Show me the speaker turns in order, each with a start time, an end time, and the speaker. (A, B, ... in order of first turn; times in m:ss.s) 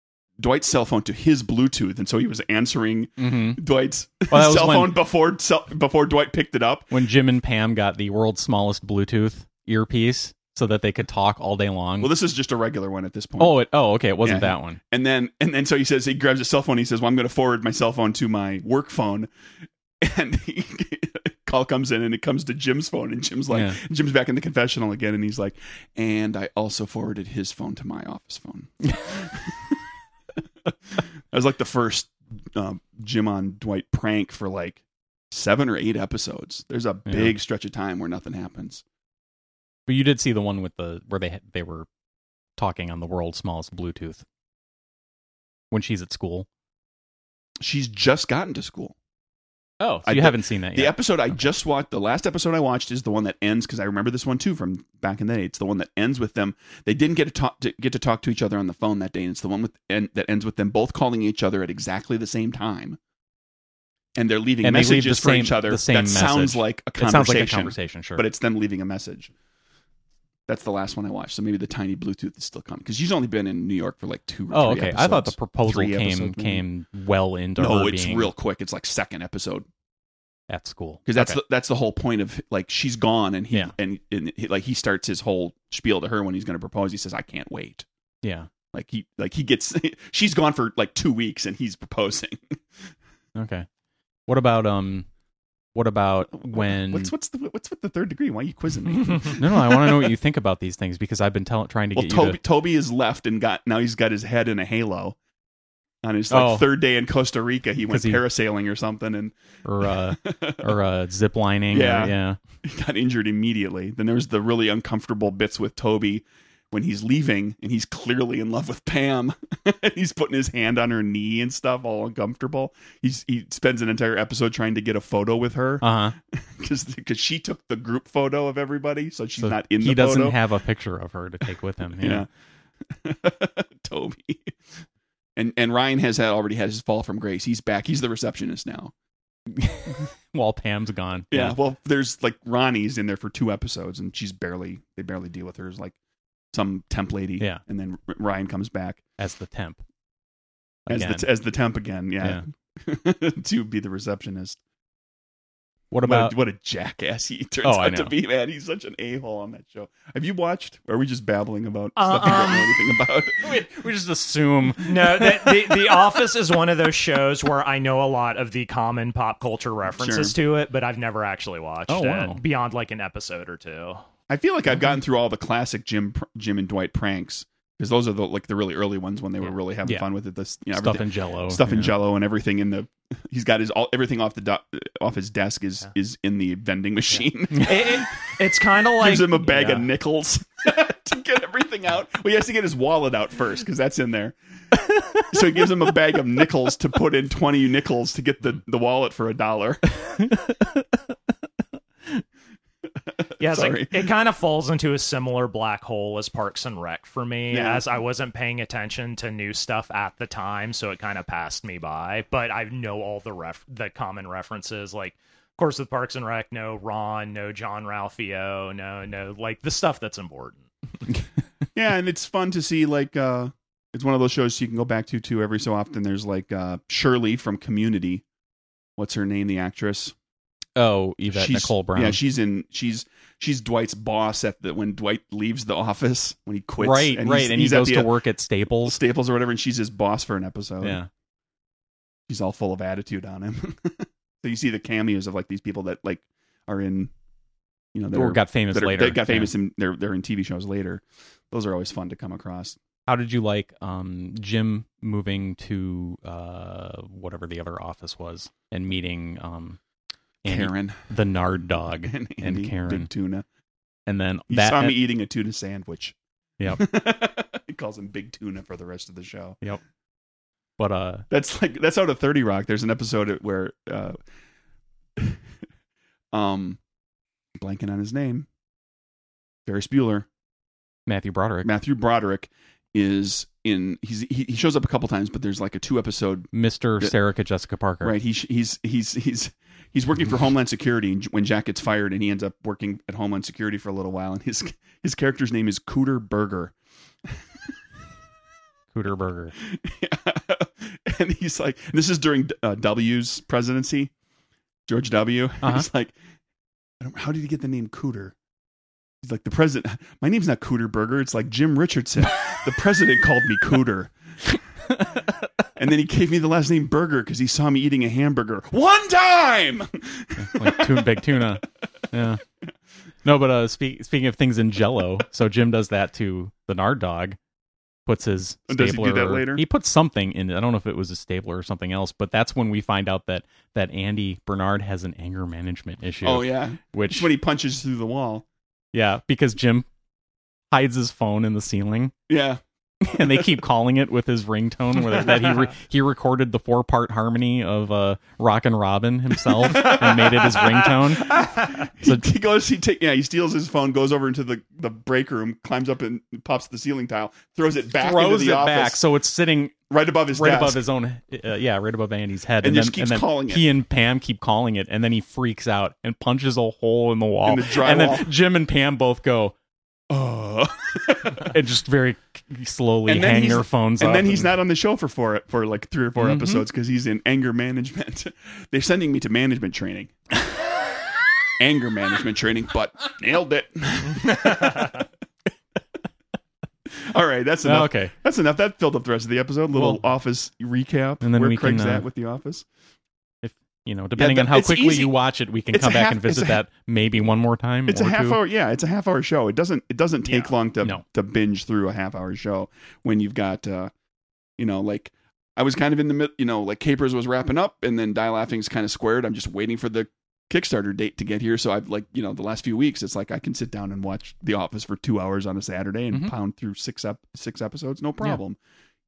0:00.4-0:06.9 A
0:03.2-0:03.6 B
0:04.3-0:05.0 B
0:06.9-0:12.1 B
0:12.0-0:13.6 A
0:13.4-0:14.8 B
0:14.2-0:19.3 A
0:20.0-0:29.8 A
0:23.5-0:23.8 B
0:30.6-0:38.8 A
0:37.1-0:37.3 B
0:39.9-0:41.9 B
0:42.6-0:44.2 B
0:45.7-0:46.5 B
0:47.6-0:48.9 A
0:49.8-0:51.0 B
0:50.0-1:03.0 A
1:04.2-1:09.3 A
1:04.6-1:08.2 B
1:10.5-1:16.6 A
1:14.5-1:18.3 B
1:17.6-1:19.7 A
1:20.5-1:21.4 B
1:21.1-1:27.8 A
1:28.2-1:28.5 B
1:28.7-1:32.9 A
1:33.3-1:33.7 B
1:34.3-1:35.1 B
1:35.7-1:37.1 B
1:36.3-1:40.1 A
1:39.2-1:42.4 B
1:41.9-1:45.2 A
1:46.0-1:50.8 A
1:46.3-1:46.7 B
1:47.9-1:48.2 B
1:49.6-1:52.4 B
1:51.7-2:10.4 A
2:05.8-2:06.2 B
2:09.4-2:12.2 B
2:12.0-2:12.3 A
2:12.8-2:14.6 A
2:15.4-2:18.9 A
2:19.5-2:21.6 B
2:21.3-2:26.0 A
2:26.5-2:29.0 A
2:29.2-2:29.8 B
2:30.9-2:31.3 B
2:30.9-2:34.6 A
2:35.9-2:36.3 B
2:36.0-2:43.6 A
2:37.6-2:38.1 B
2:42.0-2:42.7 C
2:43.4-2:46.0 B
2:44.8-2:54.0 C
2:49.9-2:50.3 A
2:51.9-2:52.4 B
2:54.3-3:08.1 A
3:00.7-3:01.9 B
3:07.5-3:09.8 C
3:09.0-3:14.4 A
3:14.9-3:15.2 B
3:15.1-3:19.9 A
3:20.2-3:20.9 B
3:23.2-3:24.1 A
3:23.4-3:40.7 C
3:27.5-3:27.8 A
3:41.7-3:48.2 A
3:49.0-3:50.1 A
3:50.8-3:52.2 B
3:51.3-3:58.1 A
3:56.8-3:59.0 B
3:58.8-4:01.0 A
4:00.8-4:01.1 B
4:02.3-4:07.1 A
4:07.9-4:12.8 A
4:08.1-4:09.5 B
4:13.1-4:19.8 B
4:20.4-4:23.1 B
4:20.4-4:21.1 A
4:22.1-4:23.4 A
4:24.1-4:25.0 B
4:24.5-4:26.2 A
4:26.7-4:29.6 A
4:30.8-4:31.2 B
4:31.3-4:34.2 A
4:35.2-4:35.4 A
4:36.3-4:36.8 A
4:37.6-4:38.5 A
4:39.6-4:40.3 A
4:41.1-4:41.7 B
4:41.6-4:47.1 A
4:46.5-4:48.1 B
4:48.0-4:56.7 A
4:58.9-4:59.5 B
4:59.6-5:04.1 A
5:04.9-5:06.1 A
5:07.0-5:08.3 A
5:09.2-5:14.1 A
5:14.9-5:15.3 B
5:15.8-5:21.5 A
5:20.4-5:22.4 B
5:23.2-5:27.4 B
5:28.0-5:37.3 B
5:28.7-5:29.6 A
5:36.2-5:38.4 A
5:38.9-5:39.9 B
5:40.7-5:42.1 B
5:42.3-5:43.6 A
5:43.0-5:51.4 B
5:49.5-5:59.0 A
5:52.0-5:52.3 B
5:58.0-5:59.8 B
5:59.9-6:00.8 A
6:00.3-6:09.5 B
6:02.6-6:03.6 A
6:07.4-6:08.3 A
6:10.1-6:11.5 A
6:11.4-6:14.5 B
6:13.0-6:20.1 A
6:16.2-6:16.6 B
6:21.6-6:25.1 A
6:26.9-6:32.7 A
6:27.6-6:28.1 B
6:29.7-6:30.0 B
6:31.2-6:32.0 B
6:33.4-6:38.4 B
6:34.2-6:35.1 A
6:35.7-6:36.6 A
6:37.9-6:43.9 A
6:44.6-6:58.6 A